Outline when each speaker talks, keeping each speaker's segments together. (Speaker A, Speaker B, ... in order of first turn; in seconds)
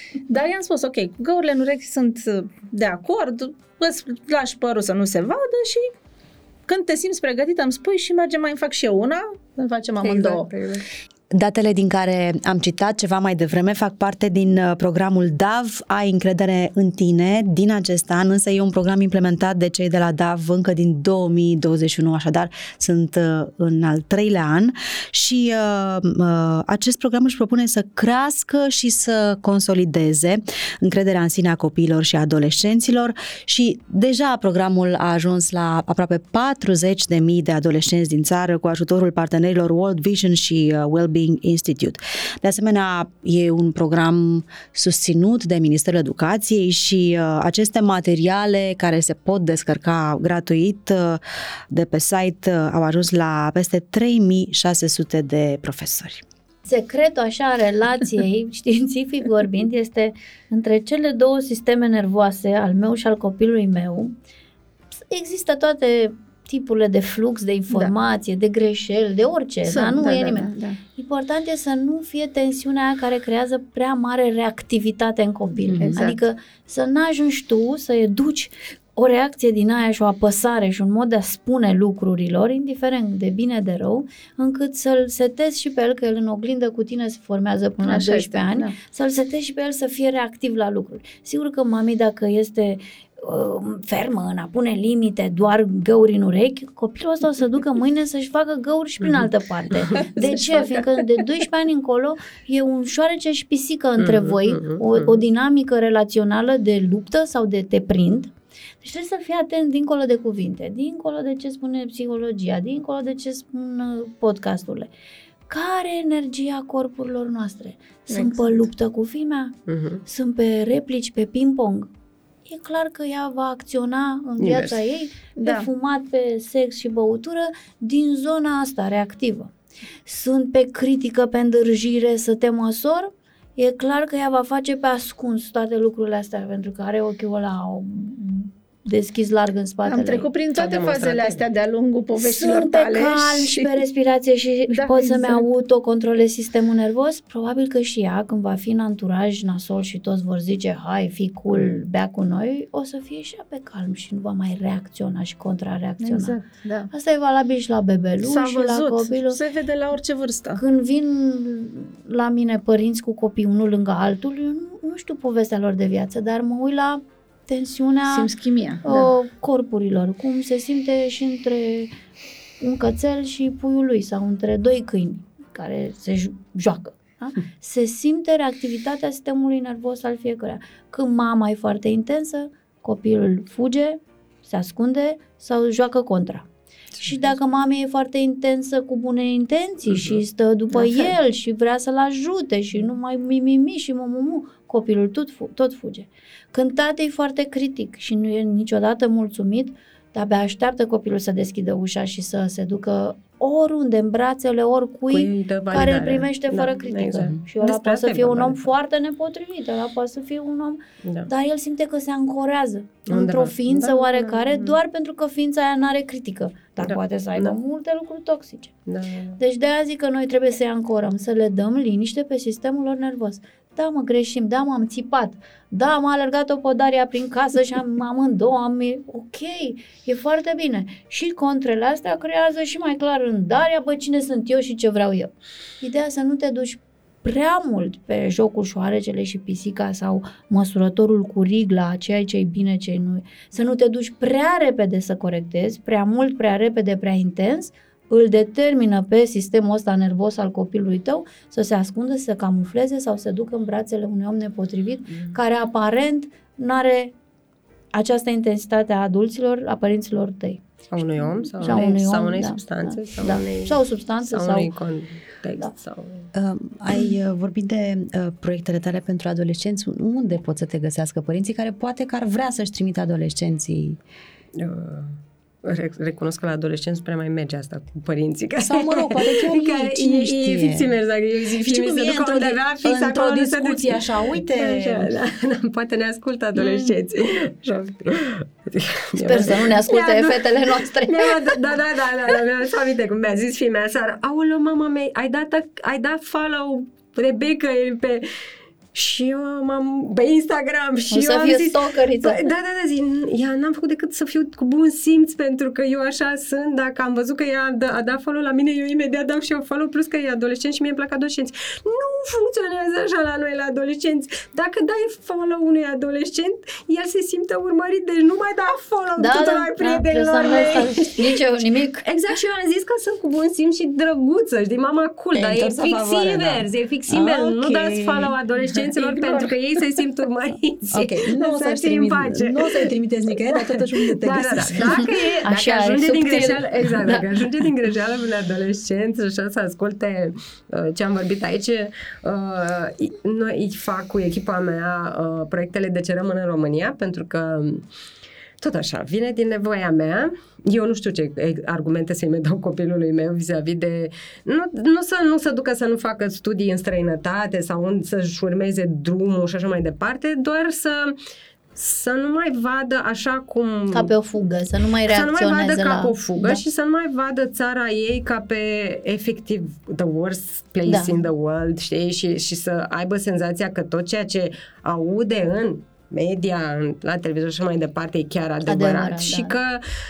Speaker A: 0.3-5.9, 6.7-10.5, 69.7-70.8, 75.8-76.2, 87.8-88.8, 99.9-100.9, 118.1-118.7, 125.4-125.7, 139.8-143.8, 144.7-145.4, 156.0-156.9, 158.2-160.6, 168.1-169.1, 190.7-191.1, 328.8-329.8
Speaker B: 10.0-10.9, 104.0-105.2, 119.7-120.0, 124.4-124.8, 140.5-141.4, 186.9-187.3, 189.9-190.2, 205.1-208.6, 211.0-211.3, 213.1-214.8, 216.8-217.6, 218.9-219.4, 255.1-255.3, 260.9-266.3, 274.6-298.2, 298.9-321.3, 322.0-347.9, 348.6-361.1, 361.8-364.1, 365.1-379.8
Speaker C: 11.3-56.2, 75.7-76.0, 266.3-274.0, 278.6-280.9, 281.6-285.1, 325.3-328.4, 330.9-335.1
Speaker D: 56.7-64.1, 64.9-114.9, 115.5-119.5, 120.1-121.9, 122.5-129.5, 130.1-140.3, 142.2-156.4, 156.9-159.4, 160.6-168.3, 168.8-171.9, 172.6-186.5, 187.0-218.7, 219.4-257.1, 257.9-264.7, 289.2-291.6, 301.1-302.5, 319.2-322.1, 335.4-337.3, 363.9-366.6, 370.9-371.2, 378.7-379.6